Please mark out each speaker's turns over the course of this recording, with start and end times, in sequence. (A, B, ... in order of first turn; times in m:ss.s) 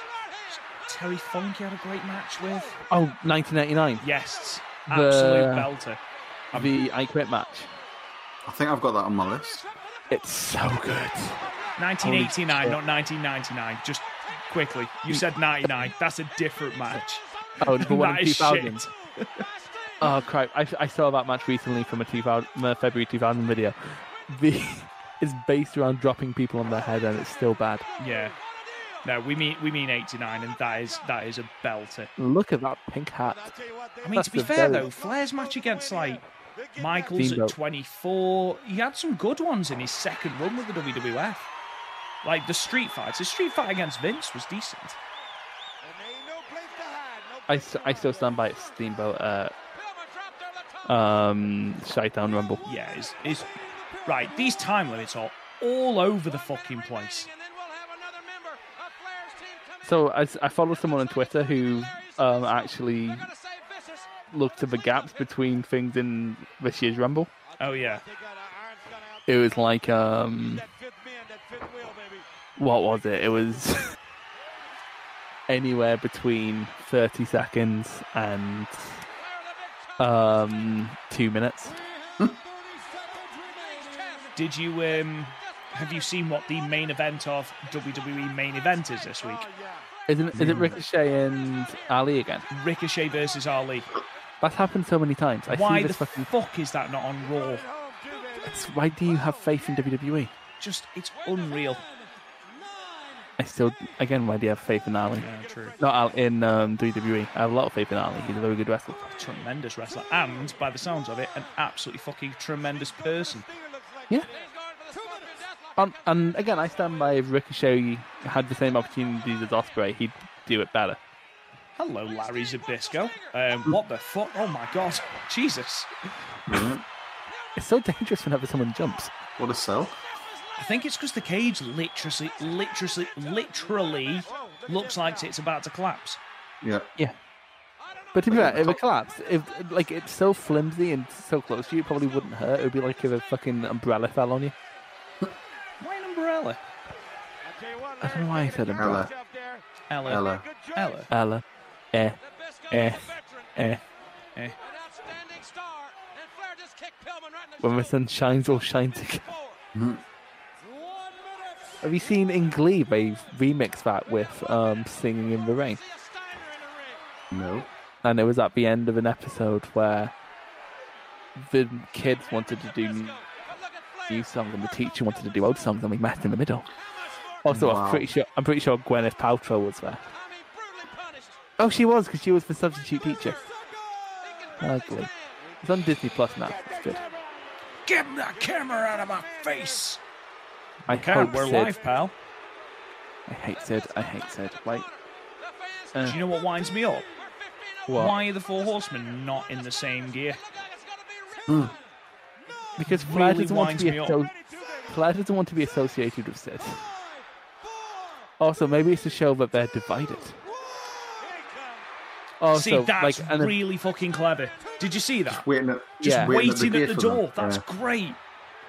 0:00.5-0:02.8 A
0:02.9-0:04.0 B
0:04.0-0:06.0 A
0:04.9-0:05.7 B
0:06.5-0:06.8 A
0:06.5-0:07.7 B
0:08.4-0:09.6 C
0:10.1-0:12.8 B
0:11.8-0:19.4 A
0:17.6-0:18.8 B
0:20.0-0:27.9 B
0:28.0-0:28.3 A
0:29.0-0:32.1 A
0:32.2-0:34.9 B
0:34.0-0:36.2 A
0:36.8-0:41.5 A
0:37.1-0:37.5 B
0:42.2-0:45.0 A
0:47.5-0:49.5 B
0:50.9-0:52.6 B
0:52.6-0:53.5 A
0:54.0-0:57.3 A
0:59.8-1:03.3 B
1:04.3-1:07.3 B
1:07.6-1:08.0 A
1:09.3-1:10.7 B
1:12.6-1:13.9 B
1:15.5-1:19.0 B
1:20.0-1:21.8 B
1:24.3-1:29.5 A
1:30.1-1:32.5 B
1:30.3-1:30.8 C
1:32.5-1:33.9 A
1:34.4-1:36.3 B
1:35.5-1:37.6 A
1:38.3-1:40.3 B
1:40.6-1:41.8 A
1:43.4-1:45.3 B
1:45.2-1:45.8 A
1:45.8-1:49.1 B
1:49.1-1:53.5 A
1:55.8-2:01.0 B
2:01.8-2:05.9 A
2:06.5-2:06.8 C
2:07.6-2:09.1 B
2:09.4-2:10.0 C
2:10.6-2:16.2 A
2:16.6-2:16.9 C
2:18.1-2:24.5 B
2:18.3-2:18.8 C
2:25.8-2:26.6 A
2:28.0-2:29.1 B
2:28.7-2:29.1 C
2:29.9-2:31.1 A
2:30.1-2:30.5 C
2:31.1-2:32.2 B
2:32.7-2:33.8 B
2:32.7-2:33.0 A
2:37.6-2:39.3 B
2:39.7-2:40.0 C
2:41.8-2:45.8 B
2:47.3-2:47.7 C
2:48.0-2:50.1 B
2:51.3-2:53.2 B
2:54.1-2:56.7 B
2:57.4-3:00.0 B
2:57.5-2:58.0 C
3:01.6-3:03.4 B
3:04.6-3:07.0 B
3:07.8-3:10.0 A
3:10.9-3:11.7 B
3:10.9-3:12.1 A
3:13.3-3:14.9 B
3:16.0-3:17.1 A
3:17.9-3:18.2 B
3:17.9-3:20.4 A
3:21.5-3:21.7 C
3:22.8-3:26.9 B
3:22.8-3:24.2 A
3:28.4-3:30.4 B
3:32.4-3:33.5 B
3:32.5-3:35.4 A
3:35.4-3:37.6 C
3:36.0-3:36.3 B
3:36.0-3:38.2 A